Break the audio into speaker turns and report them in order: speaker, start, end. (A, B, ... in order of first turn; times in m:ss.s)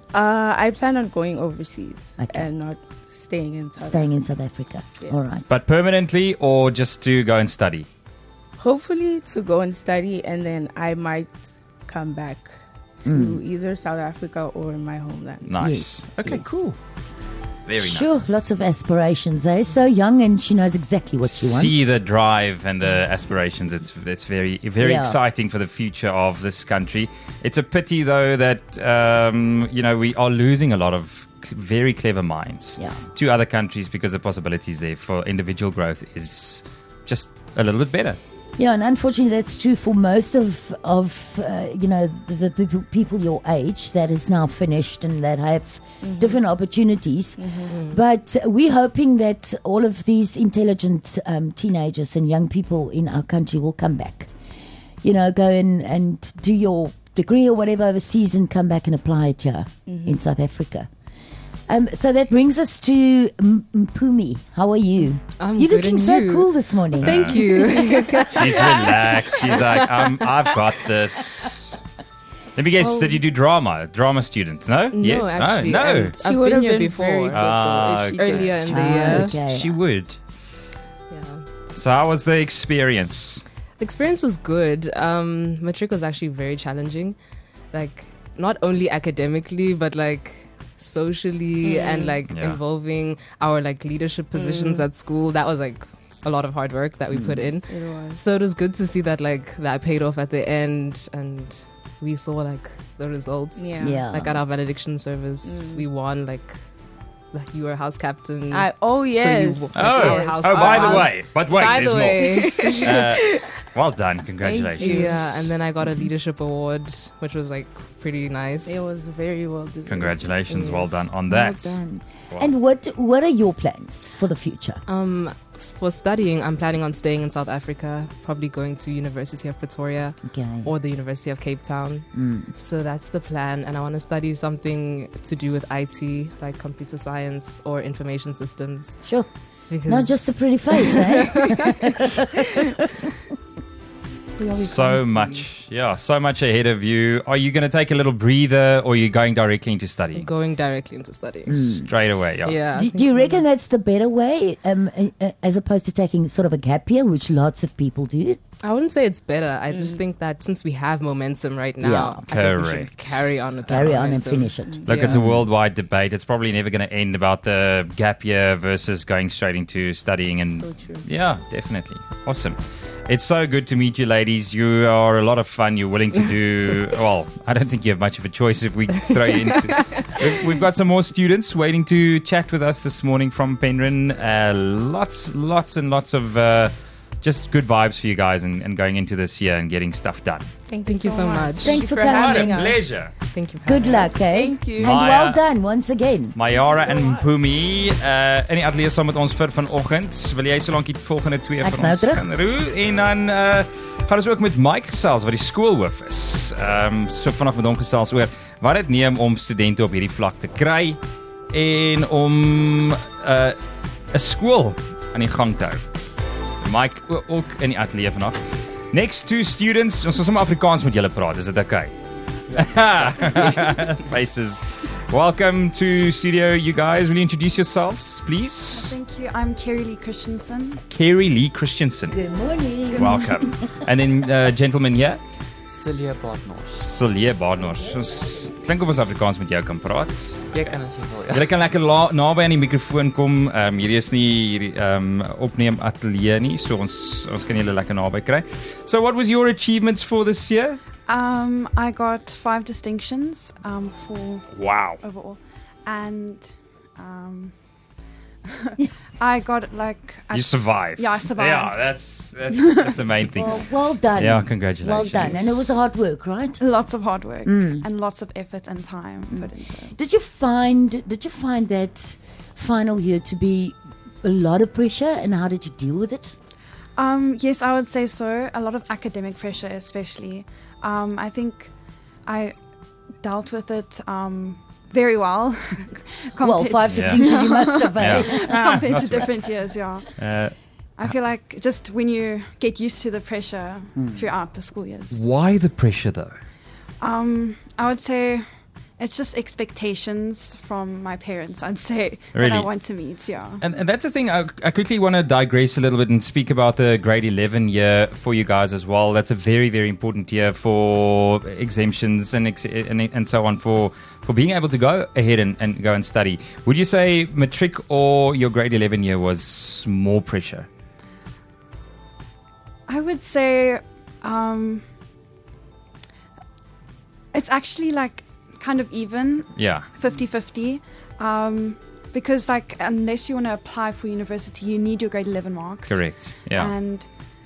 0:00.1-0:04.1 A
0:02.2-0:02.5 B
0:03.8-0:05.5 B
0:05.5-0:07.9 C
0:08.6-0:15.4 A
0:13.0-0:13.4 B
0:15.5-0:16.8 C
0:15.6-0:16.6 B
0:17.7-0:18.2 C
0:17.8-0:22.0 B
0:21.2-0:38.2 C
0:24.8-0:25.2 B
0:32.8-0:33.0 B
0:38.6-0:54.3 B
0:46.0-0:46.4 A
0:47.6-0:48.0 D
0:55.0-1:00.9 B
0:59.9-1:00.2 A
1:01.7-1:07.3 B
1:05.4-1:08.5 D
1:07.0-1:07.5 C
1:08.3-1:11.8 C
1:09.5-1:09.9 D
1:12.6-1:16.2 C
1:12.8-1:13.2 D
1:14.9-1:19.4 D
1:16.2-1:19.0 A
1:17.3-1:20.2 C
1:18.7-1:19.8 B
1:21.1-1:21.4 D
1:21.8-1:23.4 C
1:23.8-1:27.2 D
1:27.7-1:46.6 D
1:31.6-1:32.2 A
1:32.2-1:32.6 C
1:34.4-1:34.8 A
1:37.1-1:37.6 B
1:37.7-1:38.2 A
1:43.8-1:44.4 B
1:45.4-1:45.8 A
1:47.3-1:53.0 D
1:48.6-1:51.0 A
1:49.7-1:55.0 C
1:52.4-1:53.4 A
1:54.5-1:55.5 A
1:54.7-1:58.9 D
1:58.7-2:00.9 A
1:59.9-2:01.8 C
2:01.2-2:04.8 B
2:04.9-2:19.1 D
2:10.2-2:10.8 B
2:12.1-2:12.6 B
2:19.0-2:19.3 B
2:19.7-2:21.9 D
2:19.8-2:23.2 B
2:24.4-2:30.3 C
2:24.8-2:25.3 D
2:30.2-2:31.8 D
2:31.5-2:31.9 B
2:31.9-2:32.7 C
2:32.4-2:33.4 D
2:32.7-2:38.4 B
2:38.6-2:45.3 D
2:39.7-2:40.0 A
2:41.8-2:42.3 B
2:42.2-2:43.8 C
2:43.7-2:45.3 B
2:44.9-3:10.5 C
2:50.6-2:51.0 A
3:10.7-3:12.9 A
3:10.9-3:12.2 D
3:11.1-3:11.5 E
3:11.6-3:12.4 B
3:12.1-3:13.2 C
3:12.1-3:12.8 E
3:13.2-3:14.0 D
3:13.6-3:16.4 B
3:14.0-3:14.9 A
3:14.8-3:15.4 C
3:16.4-3:31.0 C
3:21.6-3:22.2 B
3:31.5-3:33.6 C
3:34.1-3:35.8 C
3:36.6-3:41.9 C
3:42.5-3:49.0 C
3:48.7-3:50.8 E
3:50.9-3:52.2 C
3:52.1-3:53.6 B
3:53.0-3:55.2 C
3:55.7-3:56.9 F
3:56.8-4:00.8 C
3:57.6-3:58.5 B
4:00.5-4:01.4 F
4:01.3-4:10.8 C
4:11.1-4:17.6 E
4:14.5-4:15.0 C
4:18.5-4:23.2 E
4:20.3-4:25.8 C
4:23.4-4:26.6 B
4:26.6-4:30.0 E
4:27.4-4:27.9 B
4:29.3-4:36.4 B
4:37.0-4:41.7 E
4:42.2-4:42.6 E
4:43.2-4:50.2 E
4:46.4-4:48.6 B
4:46.9-4:47.2 C
4:48.0-4:49.3 C
4:50.2-4:51.1 C
4:51.0-4:55.2 E
4:54.0-4:54.3 B
4:55.1-4:56.3 C
4:57.0-4:58.5 E
4:59.0-5:03.6 E
5:02.3-5:02.7 C
5:03.6-5:20.7 C
5:22.9-5:24.9 E
5:27.3-5:37.1 E
5:29.6-5:29.9 C
5:35.9-5:36.7 C